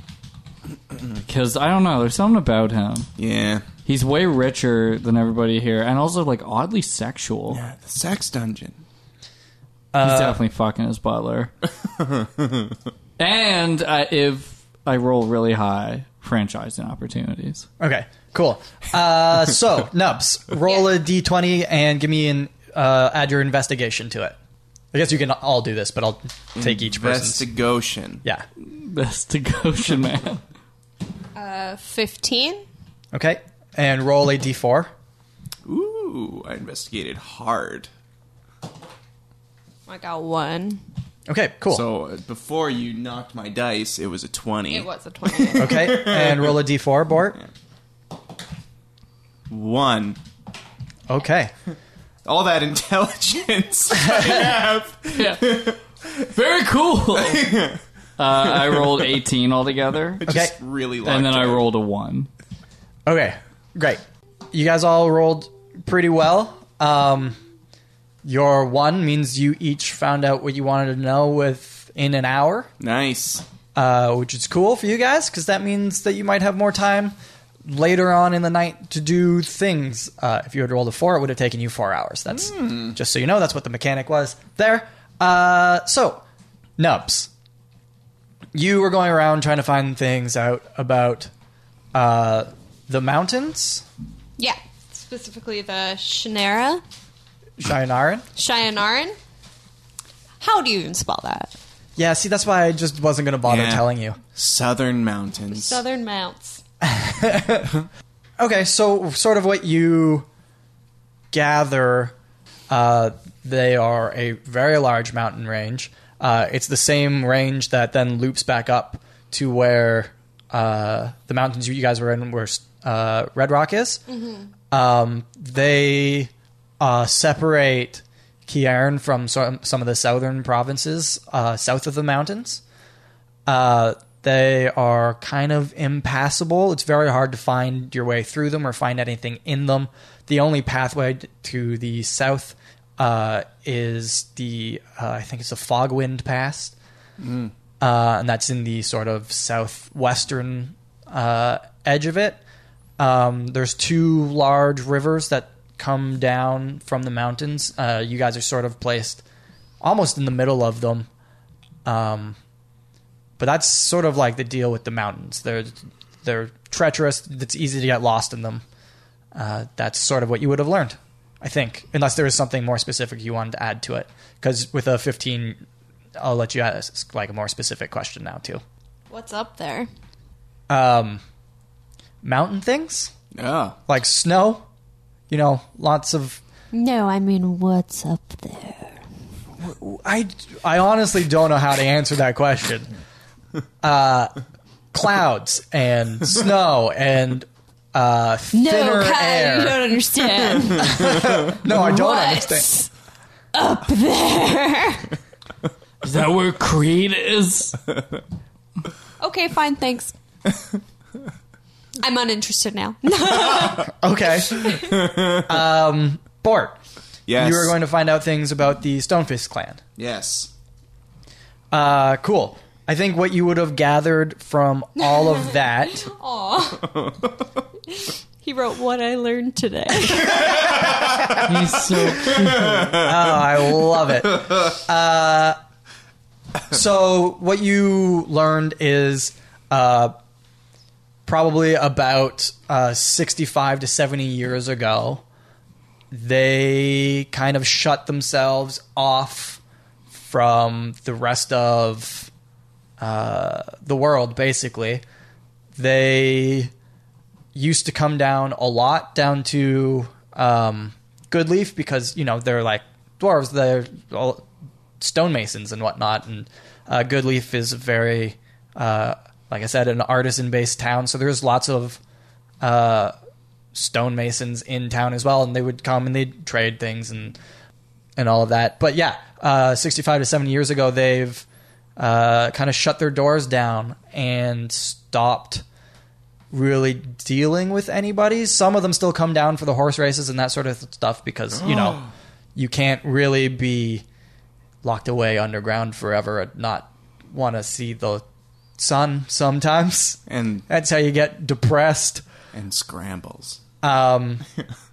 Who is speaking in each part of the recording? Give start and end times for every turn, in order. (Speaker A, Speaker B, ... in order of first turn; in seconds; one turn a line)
Speaker A: 1.2-3.1
Speaker B: 3.2-3.7
Speaker A: 3.8-7.6
Speaker B: 7.5-8.8
Speaker C: 9.9-10.4
Speaker A: 10.0-11.5
Speaker B: 11.9-12.7
Speaker A: 13.2-17.7
Speaker C: 17.8-24.4
Speaker C: 24.9-27.4
Speaker B: 26.5-28.2
Speaker A: 28.6-30.4
Speaker D: 31.3-32.6
Speaker C: 33.1-34.9
Speaker B: 35.6-37.9
Speaker D: 39.9-40.8
Speaker C: 41.3-41.8
Speaker B: 41.7-46.6
Speaker D: 44.7-45.9
Speaker C: 45.6-47.4
Speaker B: 49.5-50.2
Speaker C: 51.1-51.5
Speaker B: 52.2-56.1
Speaker A: 55.1-57.6
Speaker B: 57.1-57.8
Speaker A: 58.2-60.2
Speaker B: 58.3-59.2
Speaker B: 60.2-61.6
Speaker C: 60.2-60.5
Speaker A: 61.0-62.3
Speaker C: 63.0-67.4
Speaker C: 68.2-72.7
Speaker B: 72.8-73.4
Speaker C: 73.7-86.2
Speaker B: 82.3-82.9
Speaker C: 86.8-87.3
Speaker C: 88.5-91.3
Speaker C: 91.9-93.8
Speaker D: 94.4-96.8
Speaker C: 97.6-98.2
Speaker D: 98.3-99.2
Speaker D: 100.4-101.5
Speaker C: 102.0-104.2
Speaker B: 103.4-105.8
Speaker D: 105.5-106.6
Speaker C: 106.8-107.8
Speaker C: 108.4-110.3
Speaker C: 111.3-112.1
Speaker C: 112.7-124.0
Speaker D: 124.1-124.4
Speaker C: 124.7-132.6
Speaker C: 133.5-146.8
Speaker B: 147.2-147.5
Speaker C: 147.8-152.4
Speaker C: 153.0-159.2
Speaker C: 159.8-161.1
Speaker C: 161.8-162.4
Speaker C: 163.4-168.6
Speaker C: 169.3-175.6
Speaker C: 176.2-178.6
Speaker D: 179.1-179.9
Speaker C: 180.7-181.2
Speaker C: 182.2-183.1
Speaker B: 183.3-183.8
Speaker C: 183.9-184.6
Speaker C: 185.3-186.4
Speaker D: 186.7-189.0
Speaker C: 189.6-192.9
Speaker C: 193.8-194.3
Speaker C: 194.9-199.8
Speaker D: 198.5-202.9
Speaker C: 200.8-202.7
Speaker D: 203.5-205.1
Speaker A: 206.0-207.8
Speaker D: 209.2-210.1
Speaker D: 212.0-214.9
Speaker C: 214.0-216.8
Speaker B: 214.7-215.6
Speaker B: 217.3-217.8
Speaker C: 217.3-219.8
Speaker B: 220.0-220.5
Speaker C: 221.7-226.1
Speaker D: 225.1-226.9
Speaker B: 226.8-227.4
Speaker D: 227.9-230.9
Speaker B: 230.3-231.5
Speaker A: 231.3-233.0
Speaker B: 232.0-233.4
Speaker C: 232.9-235.6
Speaker C: 236.7-240.1
Speaker C: 241.2-245.2
Speaker C: 246.1-252.3
Speaker C: 253.0-255.0
Speaker C: 255.8-256.7
Speaker C: 257.5-264.4
Speaker C: 265.0-272.0
Speaker C: 272.6-273.1
Speaker C: 273.7-277.4
Speaker C: 278.2-281.4
Speaker C: 282.0-285.6
Speaker C: 286.5-292.0
Speaker B: 291.5-292.1
Speaker C: 292.5-294.0
Speaker C: 294.8-298.2
Speaker C: 298.8-302.2
Speaker B: 300.3-300.6
Speaker B: 302.5-303.6
Speaker C: 303.8-304.4